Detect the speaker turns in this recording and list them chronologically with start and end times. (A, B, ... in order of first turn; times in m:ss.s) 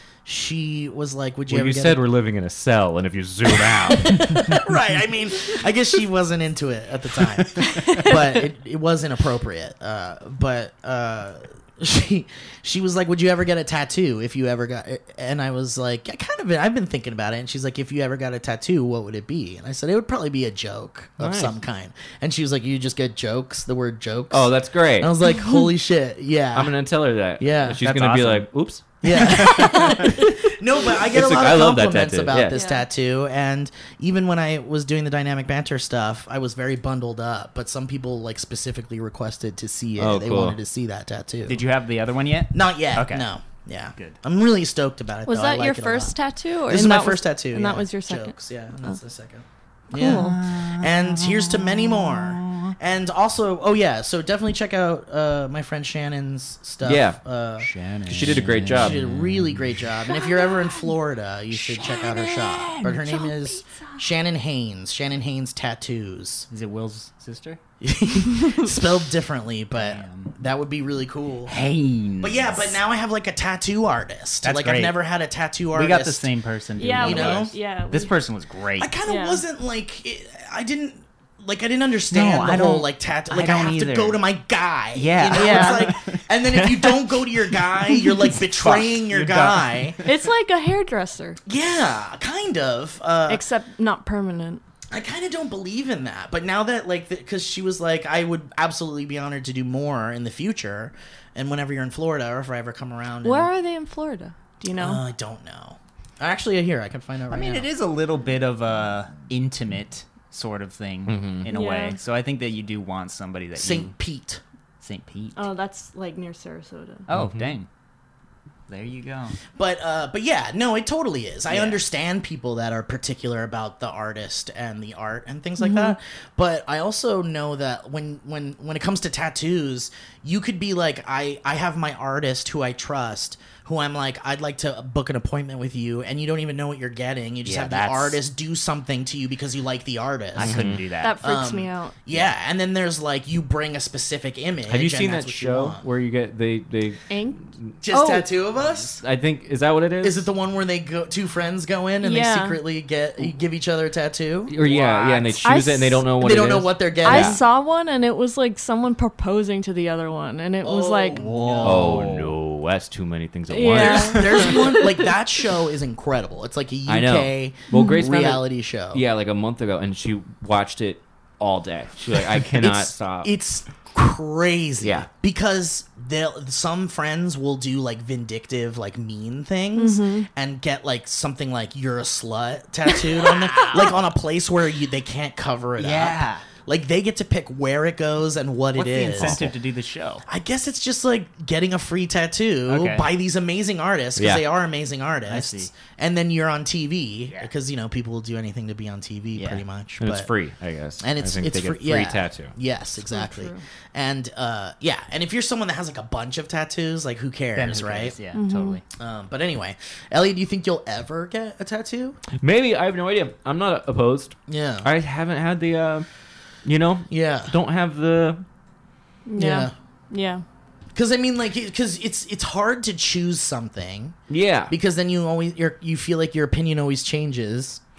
0:00.2-0:02.0 A
0:01.5-0:04.6 B
0:03.6-0:26.8 A
0:07.6-0:08.1 C
0:21.2-0:21.6 B
0:24.3-0:25.2 B
0:25.3-0:25.6 D
0:26.5-0:28.9 B
0:27.4-0:27.8 A
0:27.8-0:28.5 C
0:29.0-0:41.6 A
0:29.1-0:30.1 C
0:30.9-0:32.6 B
0:32.5-0:32.9 D
0:40.0-0:40.6 B
0:41.5-0:43.2 C
0:42.5-0:57.7 A
0:45.3-0:48.4 D
0:49.9-0:50.4 D
0:50.0-0:52.8 C
0:56.8-0:57.2 B
0:57.6-0:59.6 C
0:58.1-0:59.0 B
0:58.7-1:06.5 A
1:00.1-1:00.9 D
1:01.5-1:03.3 C
1:01.9-1:02.2 D
1:03.4-1:04.0 D
1:06.5-1:07.6 C
1:07.8-1:11.6 A
1:09.8-1:10.4 C
1:11.5-1:12.8 C
1:12.2-1:16.3 A
1:14.4-1:15.0 C
1:15.7-1:18.9 C
1:16.8-1:18.1 D
1:16.9-1:17.5 A
1:18.8-1:30.0 A
1:19.0-1:19.4 D
1:22.1-1:24.2 C
1:24.9-1:26.9 C
1:25.3-1:25.9 D
1:28.3-1:30.2 C
1:30.0-1:31.4 D
1:31.5-1:33.4 A
1:33.3-1:34.6 D
1:34.9-1:43.5 A
1:43.2-1:45.0 D
1:44.8-1:47.7 A
1:47.3-1:54.0 C
1:51.1-1:51.5 B
1:51.5-1:52.0 D
1:53.6-1:54.4 A
1:54.8-1:55.5 C
1:55.4-1:57.1 D
1:57.1-1:57.7 C
1:57.1-1:57.6 B
1:58.7-1:59.4 C
1:59.6-2:25.8 A
2:01.5-2:01.8 C
2:05.6-2:06.0 D
2:17.4-2:18.2 C
2:20.4-2:21.2 C
2:20.4-2:20.8 B
2:21.0-2:22.0 D
2:24.7-2:27.8 B
2:27.1-2:28.3 D
2:27.8-2:29.0 A
2:28.7-2:30.3 B
2:30.0-2:34.6 A
2:32.0-2:32.6 D
2:34.5-2:37.4 B
2:34.6-2:35.4 C
2:35.4-2:36.0 D
2:36.2-2:37.4 A
2:37.0-2:41.2 D
2:40.6-2:42.1 A
2:41.2-2:42.4 C
2:41.6-2:44.5 B
2:43.5-2:45.1 D
2:43.7-2:49.0 A
2:46.9-2:53.3 B
2:47.7-2:48.0 D
2:52.5-3:09.5 A
2:54.8-2:55.1 B
2:59.8-3:00.3 D
3:03.2-3:03.9 D
3:05.8-3:06.5 C
3:08.8-3:10.2 C
3:09.2-3:09.5 B
3:10.3-3:20.3 A
3:12.7-3:13.1 C
3:14.2-3:14.4 B
3:15.3-3:15.7 C
3:19.4-3:19.6 C
3:20.0-3:22.5 B
3:21.0-3:28.2 A
3:23.1-3:23.6 D
3:27.6-3:28.8 C
3:28.3-3:28.8 D
3:29.0-3:32.2 A
3:32.4-3:36.1 B
3:34.5-3:34.9 A
3:36.6-3:38.4 B
3:37.1-3:37.6 A
3:39.3-3:40.4 D
3:39.4-3:39.7 A
3:41.0-3:44.2 A
3:44.3-3:44.8 B
3:44.7-3:47.8 A